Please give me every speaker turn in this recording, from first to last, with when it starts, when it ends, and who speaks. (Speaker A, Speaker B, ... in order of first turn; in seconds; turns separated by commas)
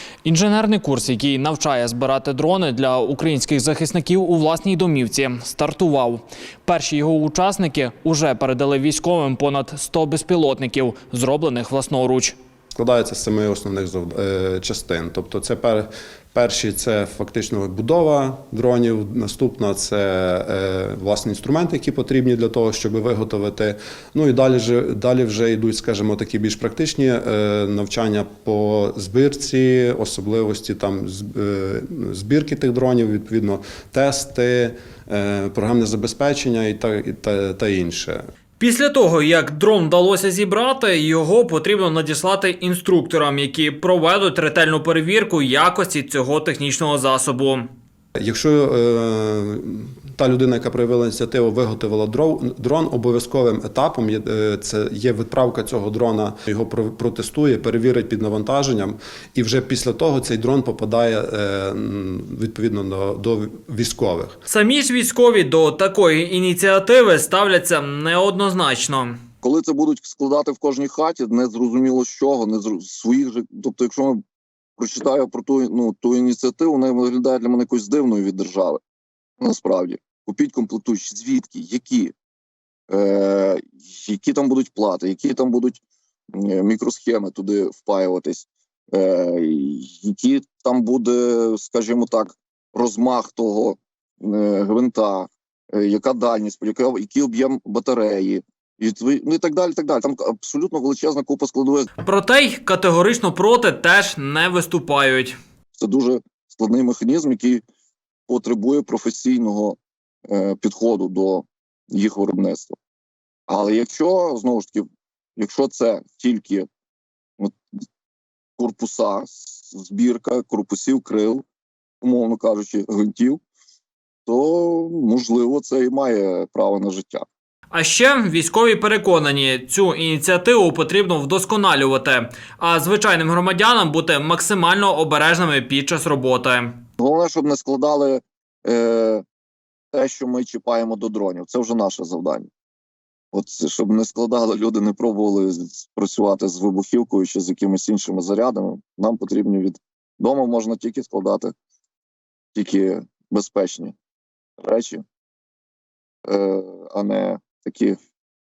Speaker A: 0.2-12.4, Speaker B: 12.7-38.2, Speaker A: 38.6-47.6, Speaker B: 48.2-64.4, Speaker A: 64.5-69.2, Speaker C: 69.4-74.2, Speaker C: 74.8-78.8, Speaker C: 79.4-82.1, Speaker C: 82.9-85.8, Speaker C: 86.3-101.9, Speaker A: 102.0-105.4, Speaker C: 105.8-107.6, Speaker C: 108.3-112.8, Speaker C: 113.5-114.8, Speaker C: 115.4-116.7, Speaker C: 118.6-121.5, Speaker C: 122.0-123.4, Speaker C: 124.3-127.3, Speaker A: 127.7-136.8, Speaker C: 137.0-139.2, Speaker C: 139.9-142.5, Speaker C: 143.3-151.5, Speaker C: 152.6-153.9, Speaker C: 154.6-155.0, Speaker C: 156.3-158.0